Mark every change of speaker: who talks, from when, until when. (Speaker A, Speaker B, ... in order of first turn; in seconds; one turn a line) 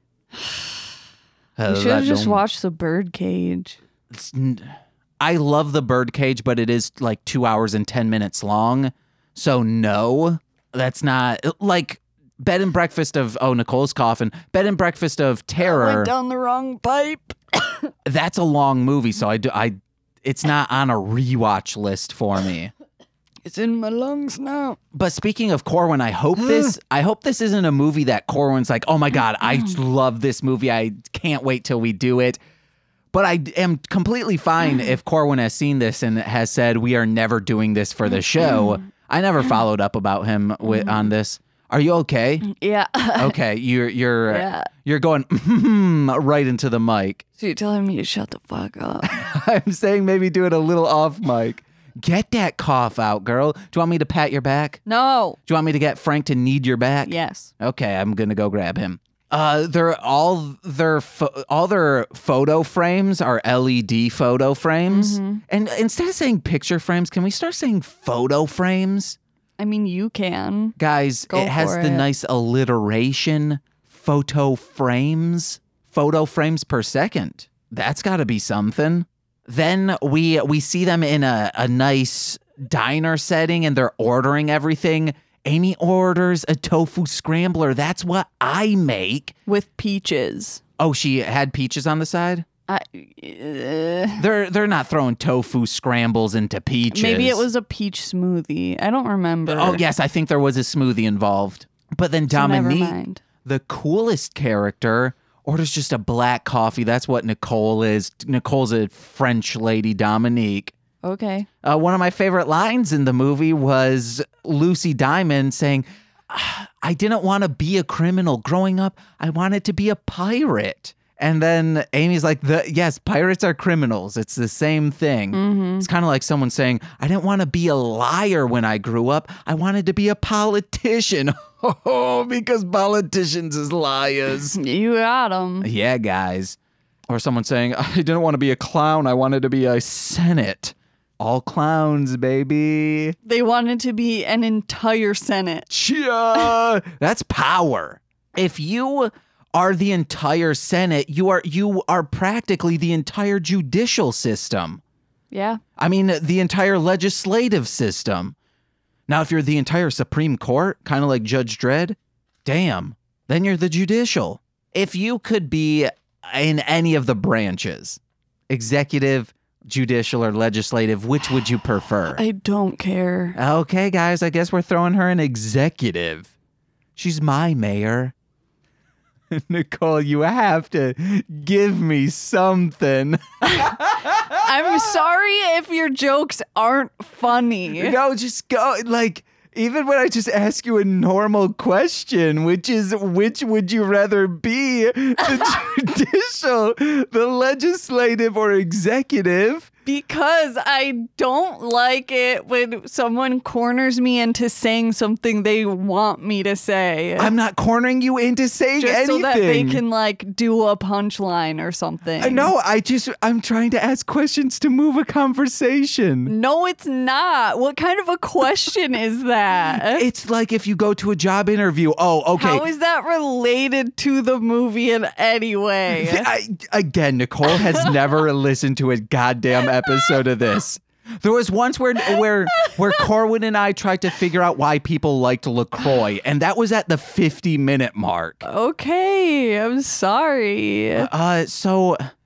Speaker A: 0.4-0.6
Speaker B: 1.6-2.4
Speaker A: 1.7-3.8
Speaker B: 4.1-16.1
Speaker A: 15.6-17.9
Speaker B: 18.1-22.7
Speaker A: 23.4-24.8
Speaker B: 24.9-32.4
Speaker B: 33.1-42.5
Speaker A: 40.7-41.0
Speaker A: 42.4-43.4
Speaker B: 43.2-47.2
Speaker A: 44.3-44.7
Speaker A: 47.4-49.1
Speaker B: 49.0-54.8
Speaker A: 54.9-55.4
Speaker B: 55.5-69.2
Speaker A: 57.0-57.5
Speaker A: 64.9-65.4
Speaker A: 69.6-70.8
Speaker B: 70.8-89.3
Speaker A: 71.3-72.1
Speaker A: 89.5-90.6
Speaker B: 90.8-92.5
Speaker A: 92.7-94.2
Speaker B: 94.2-97.4
Speaker A: 96.9-99.8
Speaker B: 99.5-110.8
Speaker A: 102.3-103.2
Speaker A: 111.0-111.5
Speaker B: 111.6-134.6
Speaker A: 125.3-125.9
Speaker A: 134.5-135.7
Speaker B: 135.6-136.6
Speaker B: 137.1-143.2
Speaker A: 143.2-145.7
Speaker B: 145.7-154.8
Speaker A: 155.3-155.6
Speaker B: 155.8-158.3
Speaker B: 159.1-172.2
Speaker A: 172.1-173.4
Speaker B: 173.4-176.3
Speaker B: 176.9-178.1
Speaker B: 179.3-184.8
Speaker A: 184.3-188.0
Speaker B: 187.8-199.7
Speaker A: 199.9-207.3
Speaker B: 207.2-209.8
Speaker A: 208.8-212.5
Speaker B: 212.2-216.3
Speaker A: 216.3-220.1
Speaker B: 219.7-222.7
Speaker A: 222.3-226.3
Speaker B: 225.9-238.4
Speaker A: 227.5-227.9
Speaker A: 229.9-230.1
Speaker A: 232.1-233.0
Speaker A: 238.4-241.1
Speaker B: 241.0-242.0